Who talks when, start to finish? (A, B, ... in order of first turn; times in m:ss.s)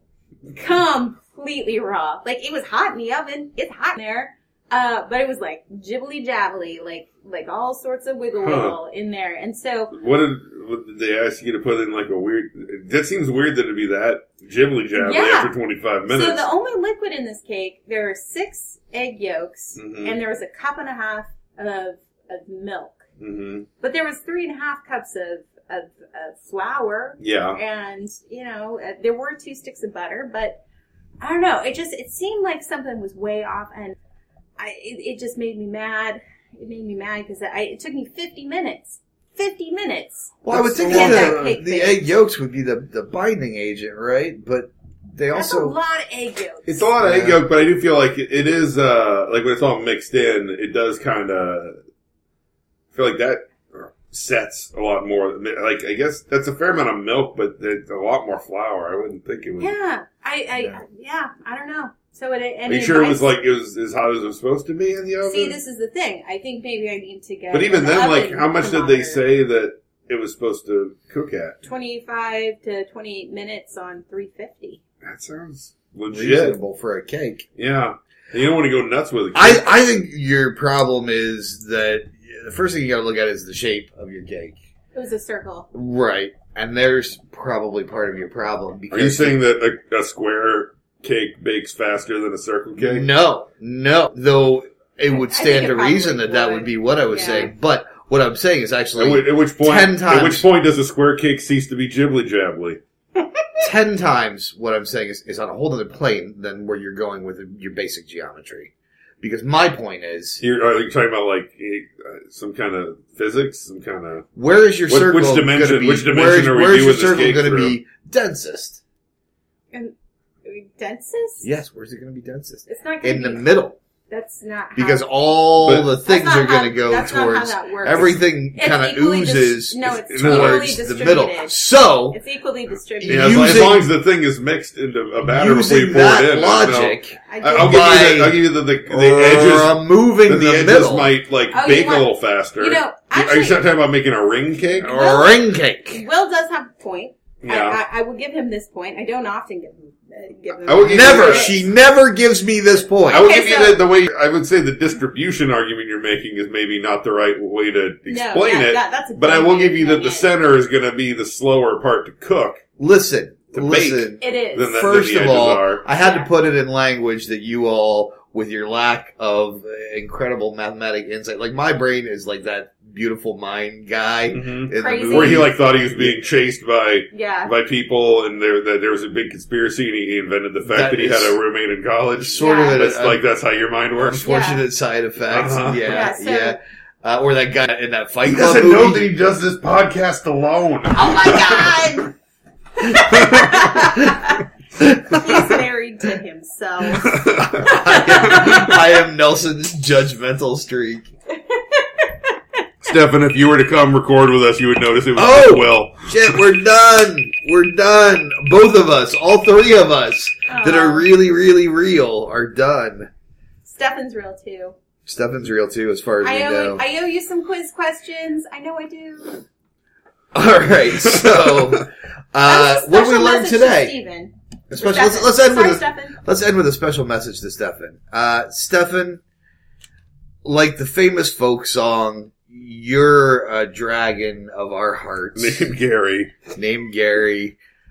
0:00.5-0:09.9 A
0:08.4-0:08.8 B
0:09.9-0:16.5 B
0:14.9-0:15.5 A
0:16.1-0:23.0 A
0:19.8-0:20.2 B
0:23.2-0:23.7 B
0:23.8-0:30.6 A
0:27.2-0:27.6 B
0:31.2-0:33.9 A
0:34.6-0:42.1 A
0:40.4-0:45.8 C
0:40.5-0:41.5 B
0:45.3-0:46.8 A
0:46.6-0:51.8 B
0:47.0-0:47.4 C
0:52.9-0:59.7 B
0:59.6-1:03.3 A
1:02.7-1:05.6 B
1:05.2-1:09.2 A
1:07.5-1:11.6 B
1:11.6-1:14.8 A
1:15.0-1:16.6 B
1:16.1-1:17.4 C
1:17.6-1:19.6 B
1:19.3-1:24.6 C
1:24.9-1:25.7 A
1:25.7-1:29.4 C
1:28.9-1:33.1 B
1:32.8-1:40.4 C
1:35.1-1:37.5 A
1:39.0-1:42.8 B
1:43.2-1:43.6 A
1:43.6-1:50.4 C
1:50.4-1:54.2 B
1:54.4-1:58.8 C
1:54.9-1:57.8 B
1:59.7-2:01.4 A
2:01.4-2:03.8 C
2:02.7-2:03.6 A
2:04.1-2:13.7 A
2:04.8-2:12.2 C
2:05.6-2:05.9 B
2:10.1-2:10.8 B
2:13.0-2:13.9 C
2:13.0-2:25.0 B
2:15.2-2:21.1 C
2:17.3-2:18.2 A
2:21.5-2:23.6 A
2:24.7-2:31.6 A
2:24.8-2:26.0 C
2:27.4-2:27.8 B
2:30.6-2:31.7 B
2:30.8-2:33.3 C
2:33.1-2:42.6 B
2:33.1-2:33.8 A
2:38.0-2:40.3 A
2:42.8-2:56.2 C
2:43.5-2:45.8 B
2:44.2-2:44.9 A
2:45.9-2:46.3 A
2:54.3-3:04.3 B
2:54.7-2:55.5 A
2:57.1-2:57.5 A
3:00.6-3:01.4 C
3:02.2-3:03.2 C
3:02.4-3:02.8 A
3:04.0-3:09.2 C
3:04.2-3:04.6 A
3:05.3-3:06.1 B
3:05.8-3:06.6 A
3:08.2-3:11.7 B
3:11.0-3:12.1 A
3:11.0-3:11.8 C
3:12.9-3:14.4 A
3:13.1-3:13.6 B
3:13.2-3:14.2 C
3:14.8-3:15.6 C
3:15.1-3:18.8 A
3:17.0-3:17.5 B
3:17.4-3:21.1 C
3:21.5-3:22.3 A
3:22.8-3:26.4 B
3:25.1-3:33.1 C
3:30.5-3:31.1 A
3:33.6-3:34.7 A
3:35.0-3:36.8 C
3:36.2-3:39.4 A
3:40.3-3:43.9 C
3:41.2-3:41.7 B
3:42.4-3:46.2 A
3:44.7-3:49.2 C
3:50.4-3:55.6 C
3:55.4-3:56.4 B
3:56.5-3:57.6 C